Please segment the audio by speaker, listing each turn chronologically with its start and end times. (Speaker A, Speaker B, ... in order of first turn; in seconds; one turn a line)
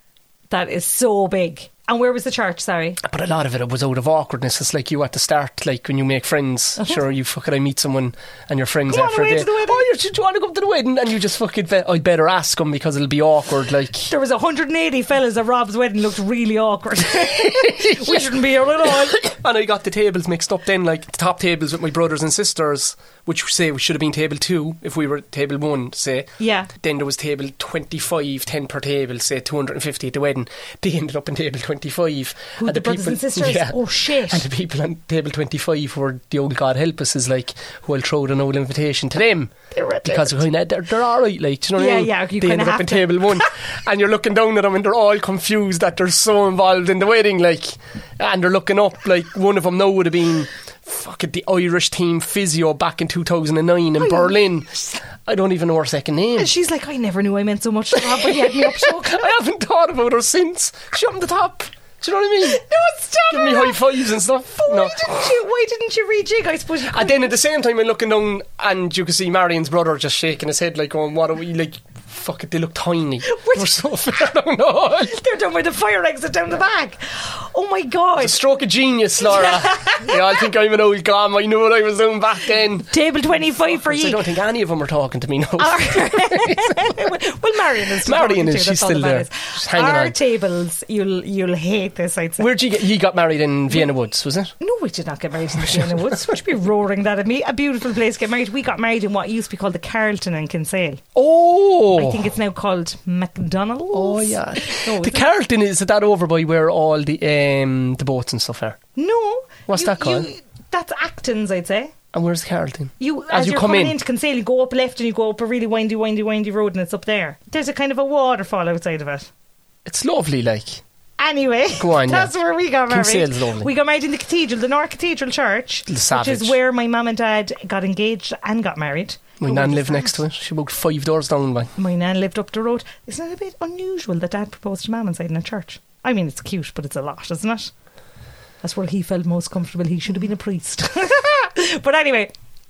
Speaker A: 0.5-3.0
Speaker B: 3.0-14.1
Speaker A: 8.9-9.8
Speaker A: 14.1-19.2
Speaker B: 17.3-39.5
Speaker A: 26.4-26.7
Speaker A: 32.6-34.5
Speaker A: 39.7-40.4
Speaker B: 40.0-56.5
Speaker A: 41.8-43.5
Speaker A: 54.0-54.3
Speaker A: 56.3-59.3
Speaker B: 57.9-62.6
Speaker A: 62.4-67.3
Speaker B: 63.3-65.3
Speaker B: 66.8-75.1
Speaker A: 73.2-73.9
Speaker A: 75.0-78.4
Speaker B: 78.2-82.9
Speaker A: 79.2-80.2
Speaker A: 82.9-84.2
Speaker B: 83.4-87.0
Speaker A: 85.6-92.5
Speaker B: 88.0-90.1
Speaker B: 92.4-94.5
Speaker A: 94.6-101.0
Speaker B: 95.6-96.3
Speaker B: 101.1-102.2
Speaker A: 101.9-105.3
Speaker B: 103.9-108.8
Speaker A: 109.0-111.9
Speaker B: 109.7-110.3
Speaker B: 112.1-114.0
Speaker A: 113.0-119.3
Speaker B: 119.8-120.8
Speaker A: 121.2-130.2
Speaker B: 121.8-122.3
Speaker B: 122.9-123.7
Speaker B: 125.9-126.6
Speaker B: 129.4-131.7
Speaker A: 131.8-137.7
Speaker A: 138.6-142.3